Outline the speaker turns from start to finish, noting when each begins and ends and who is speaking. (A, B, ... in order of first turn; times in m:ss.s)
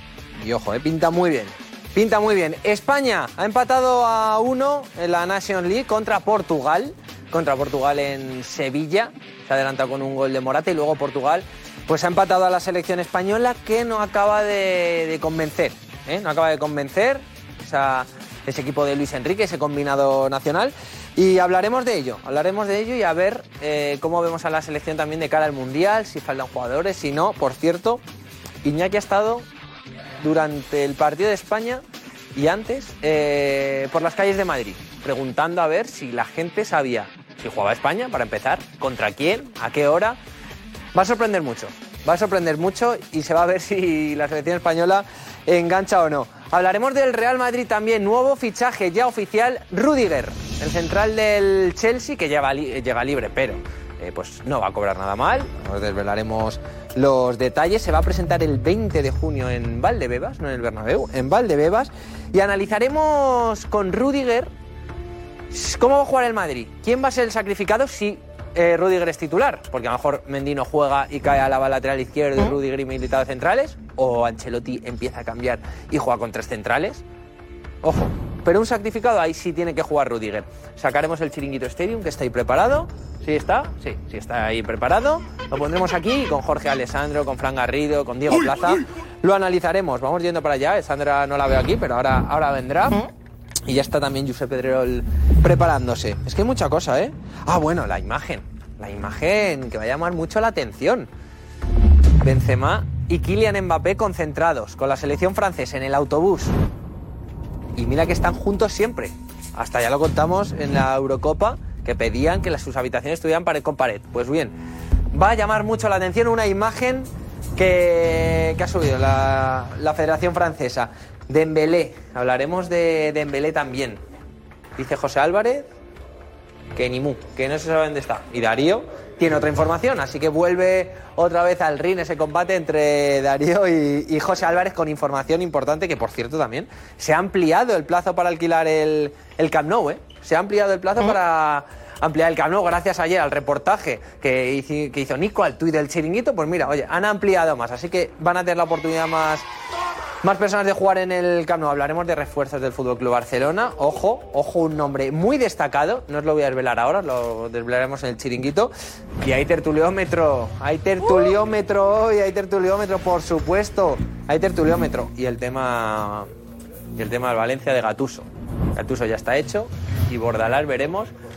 0:00.4-0:28.0 A
0:28.6-0:29.4 A
0:30.2-0:31.8 A
0:32.3-0:40.2 A
0:40.9-1:04.5 A
1:05.5-1:17.0 A
1:17.8-1:33.1 A
1:33.6-1:41.1 A
1:42.2-1:46.5 A
1:47.8-1:54.5 A
1:55.1-2:04.0 A
2:04.8-2:05.7 A
2:06.7-2:29.4 A
2:30.2-2:46.3 A
2:47.0-2:51.1 A